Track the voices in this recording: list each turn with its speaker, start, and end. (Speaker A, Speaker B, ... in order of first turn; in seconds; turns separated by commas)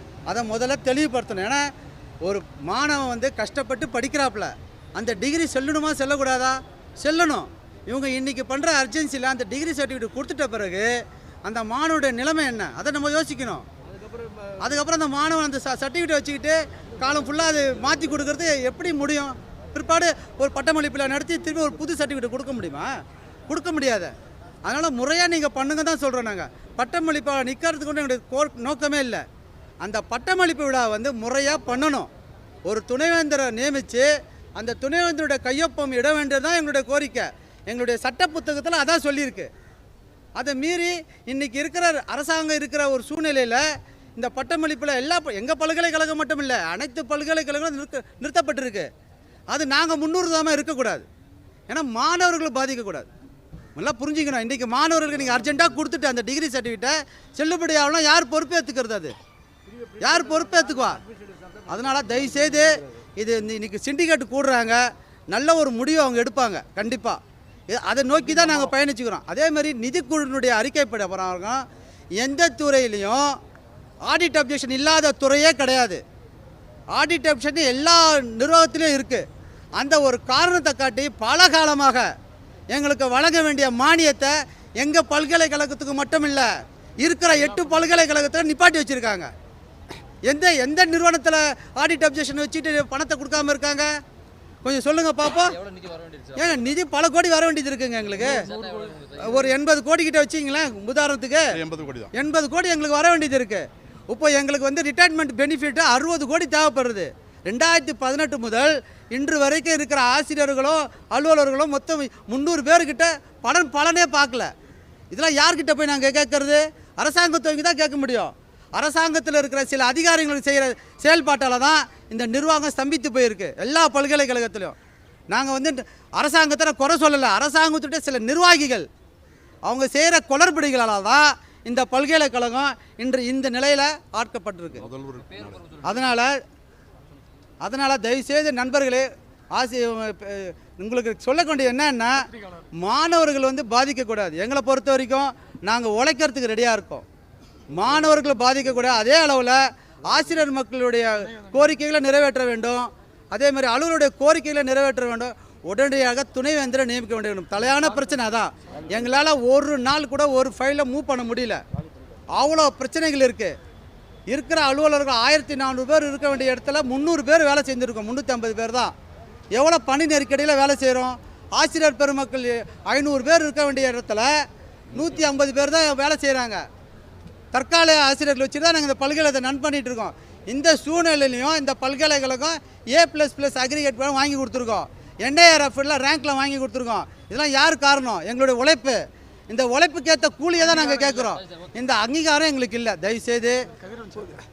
Speaker A: 0.3-1.7, Speaker A: 2.2-10.9, Speaker A: 11.4-13.7, Speaker A: 14.6-22.9, Speaker A: 23.5-24.1, Speaker A: 24.6-29.2, Speaker A: 29.8-32.1, Speaker A: 32.7-39.5, Speaker A: 40.4-48.9, Speaker A: 49.5-51.0, Speaker A: 51.7-53.1, Speaker A: 53.8-59.1, Speaker A: 60.0-61.0, Speaker A: 61.7-67.2, Speaker A: 67.7-71.7, Speaker A: 72.2-73.4, Speaker A: 74.1-76.0, Speaker A: 76.9-82.1, Speaker A: 82.7-89.3, Speaker A: 90.2-94.0, Speaker A: 94.6-95.6, Speaker B: 95.6-96.4, Speaker A: 96.3-114.5, Speaker B: 98.4-99.3, Speaker B: 101.6-102.1, Speaker A: 115.1-124.8, Speaker A: 125.3-128.9, Speaker A: 129.7-134.9, Speaker B: 134.9-135.8, Speaker A: 135.8-136.4, Speaker A: 137.6-147.1, Speaker A: 147.7-161.6, Speaker A: 162.3-163.6, Speaker A: 164.3-168.9, Speaker A: 169.5-176.7, Speaker A: 177.5-193.7, Speaker B: 193.9-194.3